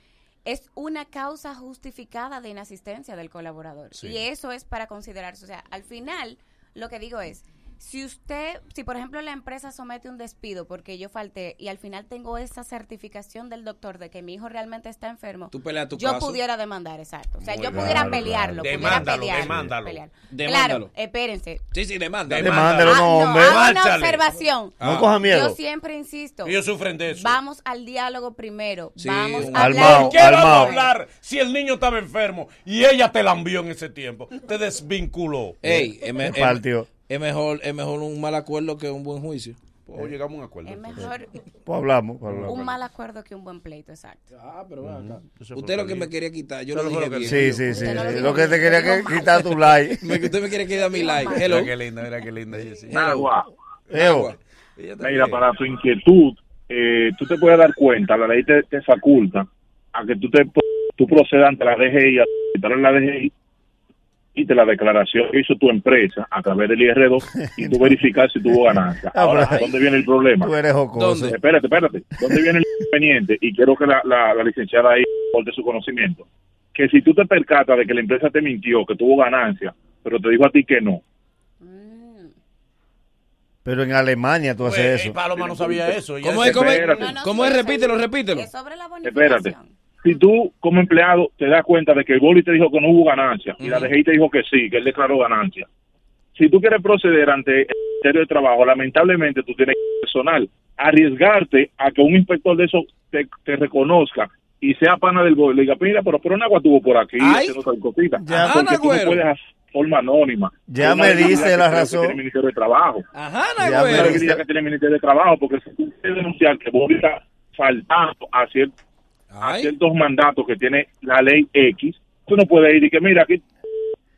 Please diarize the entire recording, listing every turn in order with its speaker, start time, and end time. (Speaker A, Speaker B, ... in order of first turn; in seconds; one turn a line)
Speaker A: 0.5-21.6
Speaker B: 3.9-4.2
Speaker C: 15.5-16.4
Speaker B: 17.4-20.0
Speaker D: 17.7-19.7
Speaker C: 20.3-20.9
Speaker C: 21.7-22.7
Speaker B: 22.3-24.3
Speaker D: 22.4-23.6
Speaker A: 22.8-30.9
Speaker C: 24.8-25.1
Speaker D: 24.8-25.6
Speaker B: 26.4-27.4
Speaker C: 29.0-30.1
Speaker D: 29.5-30.8
Speaker B: 29.6-35.7
Speaker C: 35.6-39.6
Speaker D: 35.7-36.9
Speaker B: 39.9-41.1
Speaker A: 40.6-41.4
Speaker D: 41.7-42.7
Speaker B: 42.2-42.7
Speaker A: 42.4-44.3
Speaker C: 44.3-48.6
Speaker B: 44.8-46.1
Speaker B: 46.7-47.8
Speaker D: 47.3-50.2
Speaker A: 47.7-49.8
Speaker C: 50.0-51.7
Speaker A: 50.7-51.6
Speaker B: 51.1-53.3
Speaker C: 52.9-53.3
Speaker E: 52.9-53.5
Speaker D: 53.9-54.3
Speaker C: 53.9-54.4
Speaker B: 54.8-55.5
Speaker E: 55.0-63.3
Speaker E: 64.3-70.5
Speaker D: 67.3-68.0
Speaker D: 69.1-69.8
Speaker D: 70.4-71.4
Speaker C: 71.0-71.4
Speaker E: 71.3-81.0
Speaker A: 81.6-82.3
Speaker D: 83.7-85.2
Speaker B: 84.6-87.0
Speaker E: 85.5-87.1
Speaker C: 86.2-88.5
Speaker A: 87.0-89.8
Speaker E: 89.0-95.7
Speaker C: 93.6-93.9
Speaker E: 96.4-113.0
Speaker C: 107.2-107.6
Speaker C: 108.2-109.2
Speaker D: 110.7-112.2
Speaker C: 113.1-114.2
Speaker D: 113.6-114.4
Speaker E: 113.9-118.7
Speaker C: 119.3-119.7
Speaker E: 119.4-123.4